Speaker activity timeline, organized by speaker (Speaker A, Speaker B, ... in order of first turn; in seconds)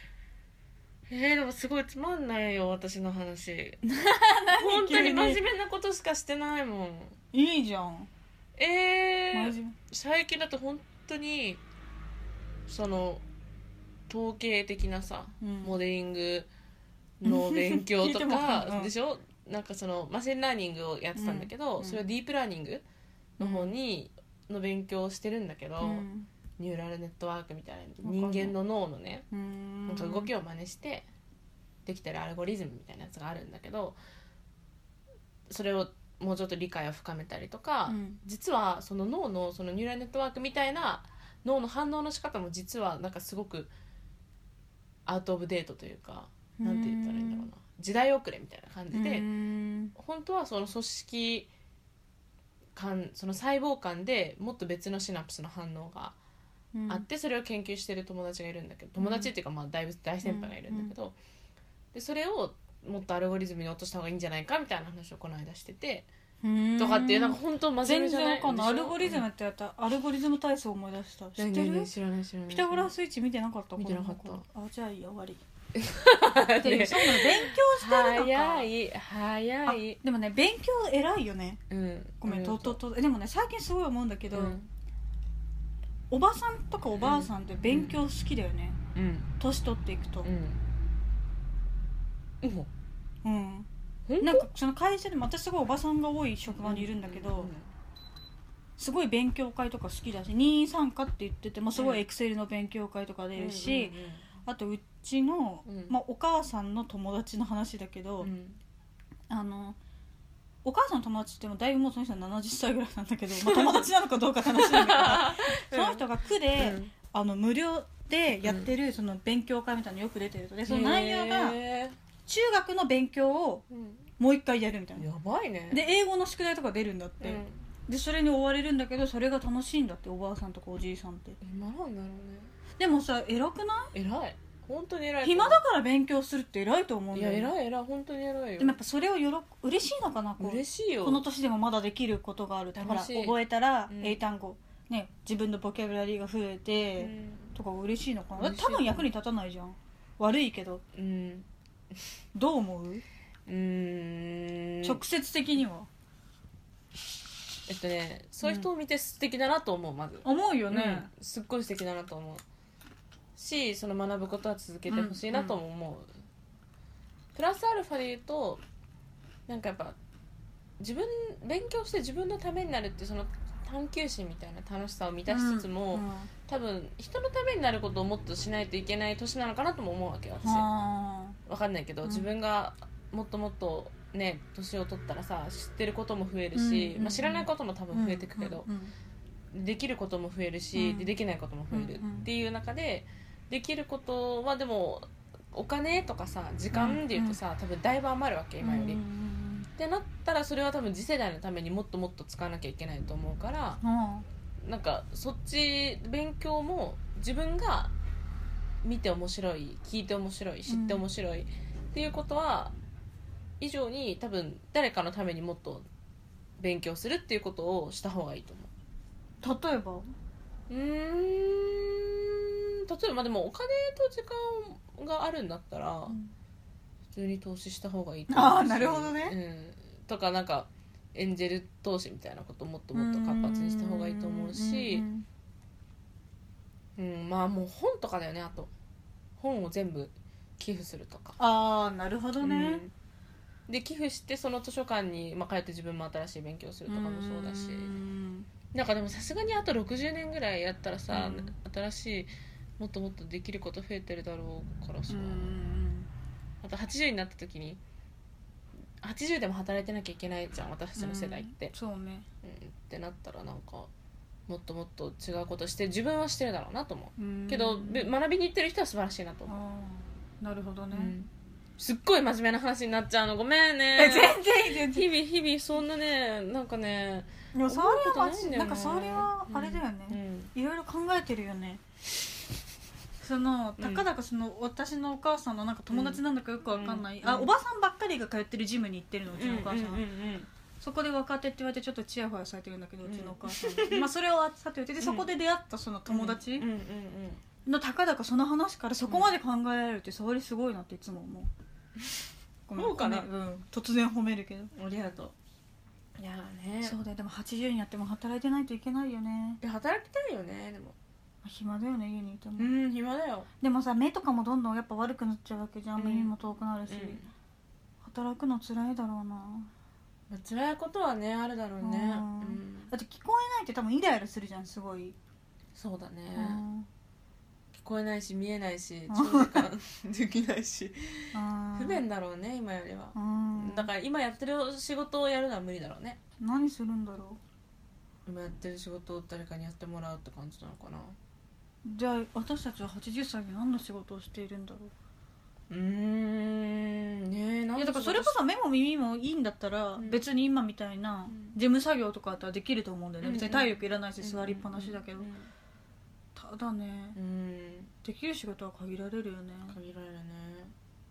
Speaker A: 1.1-3.8, 4.5-7.2, 8.6-11.6, 12.7-13.2, 14.1-16.5, 17.2-22.8, 23.4-26.1, 26.6-29.2, 29.9-31.1, 31.9-34.0, 35.5-43.7, 45.1-49.3, 50.0-51.5, 52.8-56.2, 56.9-61.2, 61.9-66.1, 66.8-69.2, 71.4-72.9, 73.8-74.4, 75.8-80.0, 81.7-82.8, 84.3-84.7, 87.0-88.0, 89.0-89.3, 90.2-90.6, 92.4-92.7, 94.1-94.5, 96.5-97.7, 101.8-102.0, 103.3-104.3, 105.7-106.0, 108.2-108.6, 113.4-113.8, 114.6-116.9, 118.4-118.7, 120.7-122.0, 123.7-124.0, 125.0-125.9, 127.2-127.6, 131.4-132.5, 133.9-135.6, 137.1-138.8, 140.4-141.2, 142.8-143.4, 143.9-144.2, 147.0-147.6, 148.4-149.1, 150.9-151.5, 153.5-155.0, 157.7-162.4, 163.4-166.1, 167.3-168.6, 169.5-170.0, 170.8-180.7, 181.5-188.7, 189.5-199.0, 199.8-203.8, 204.6-207.9, 208.8-212.8, 213.6-215.8, 216.6-218.7, 220.7-226.2, 227.1-235.1, 237.0-238.7, 239.4-241.4, 242.4-242.9, 243.7-248.0, 248.7-255.6, 256.6-257.8, 259.0-261.7, 262.4-263.9, 264.5-269.6, 270.9-280.5, 283.8-284.1, 285.9-287.5, 289.3-290.5, 293.0-294.1, 295.0-295.3, 296.1-297.4, 299.1-299.3, 302.8-303.3, 304.7-305.4, 306.2-307.0, 309.6-311.0, 312.6-313.5, 316.0-316.3, 316.9-317.3, 320.3-322.9, 325.8-326.6, 327.7-336.2, 338.3-341.2, 345.7-348.4, 350.0-350.2, 351.3-351.6, 353.2-355.5, 357.1-357.9, 359.7-360.7
Speaker B: 3.8-5.4, 7.3-8.1, 9.3-9.8, 15.4-15.8, 17.2-18.9, 21.1-22.1, 23.4-23.8, 25.8-26.3, 28.0-28.6, 29.3-30.3, 37.9-38.2, 46.6-47.5, 48.9-49.9, 56.7-57.0, 59.0-59.3, 60.2-60.9, 66.4-71.9, 72.5-75.4, 76.6-78.7, 79.7-81.6, 82.2-84.6, 86.1-88.8, 89.4-90.3, 93.2-93.7, 94.2-97.5, 98.8-108.3, 109.3-109.8, 110.6-121.6, 122.3-123.6, 124.2-125.0, 125.7-131.4, 132.8-133.9, 135.2-137.5, 138.6-150.8, 152.3-153.0, 154.8-155.9, 160.2-161.1, 164.9-165.6, 175.3-176.3, 180.4-181.4, 182.0-182.3, 186.5-188.9, 190.8-191.1, 191.7-192.3, 196.7-197.4, 198.6-199.7, 203.8-204.3, 210.7-211.0, 219.4-220.1, 226.1-226.3, 228.3-229.4, 232.9-235.3, 241.4-242.8, 246.9-248.5, 251.1-251.5, 255.1-256.1, 261.0-262.3, 267.2-268.1, 269.5-271.1, 273.9-275.1, 277.5-281.8, 283.2-290.0, 290.8-296.7, 297.7-301.5, 302.7-304.7, 306.8-309.6, 311.4-312.7, 313.6-317.3, 318.0-319.7, 321.8-325.2, 326.4-326.9, 329.1-329.7, 331.3-332.0, 333.1-333.9, 336.4-337.4, 341.8-344.9, 347.8-355.3, 356.4-357.2, 358.0-359.8